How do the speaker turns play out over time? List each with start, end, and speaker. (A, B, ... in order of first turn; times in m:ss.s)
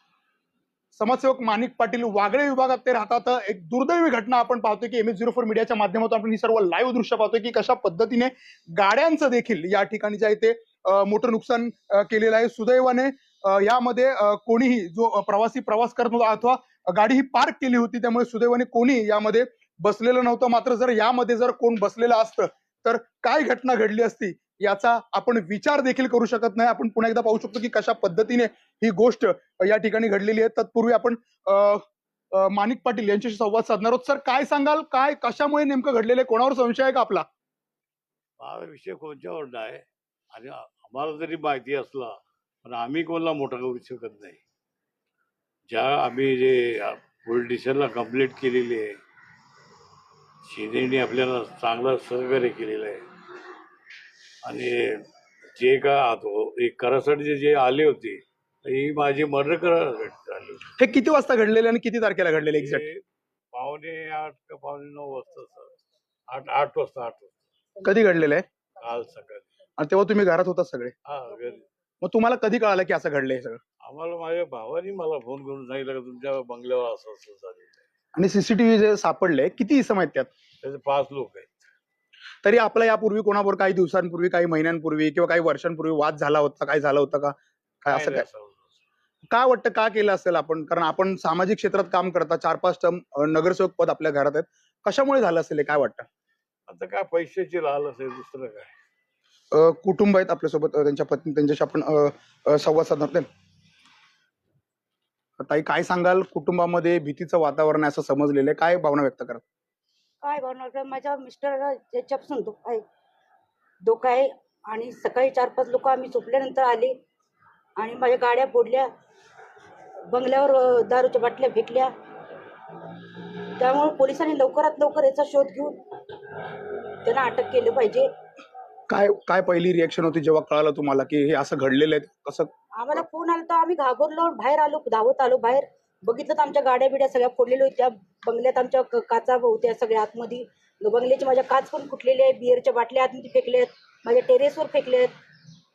0:00.9-0:37.3 A
0:38.4-0:44.4 B
0:45.7-0:49.0 B
0:50.4-0:53.0 B
0:54.4-0:55.0 B
0:55.6-1:00.6 B
1:00.8-1:02.9 A
1:02.6-1:05.8 B
1:06.3-1:07.5 B
1:07.8-1:08.4 A
1:08.8-1:09.5 B
1:09.8-1:10.9 A
1:11.1-1:11.7 B
1:12.0-1:13.6 A
1:13.8-1:17.8 B
1:18.2-1:20.3 A
1:20.6-1:21.5 B
1:22.4-1:28.2 A
1:27.9-1:28.8 B
1:29.3-1:36.1 A
1:36.7-1:38.7 B
1:39.5-1:43.3 A
1:45.4-1:49.4 A
1:50.2-1:52.8 C
1:53.8-1:56.9 C
1:57.8-1:58.9 C
2:00.1-2:01.9 C
2:03.6-2:05.8 C
2:07.0-2:08.1 C
2:08.9-2:12.5 A
2:12.8-2:25.1 C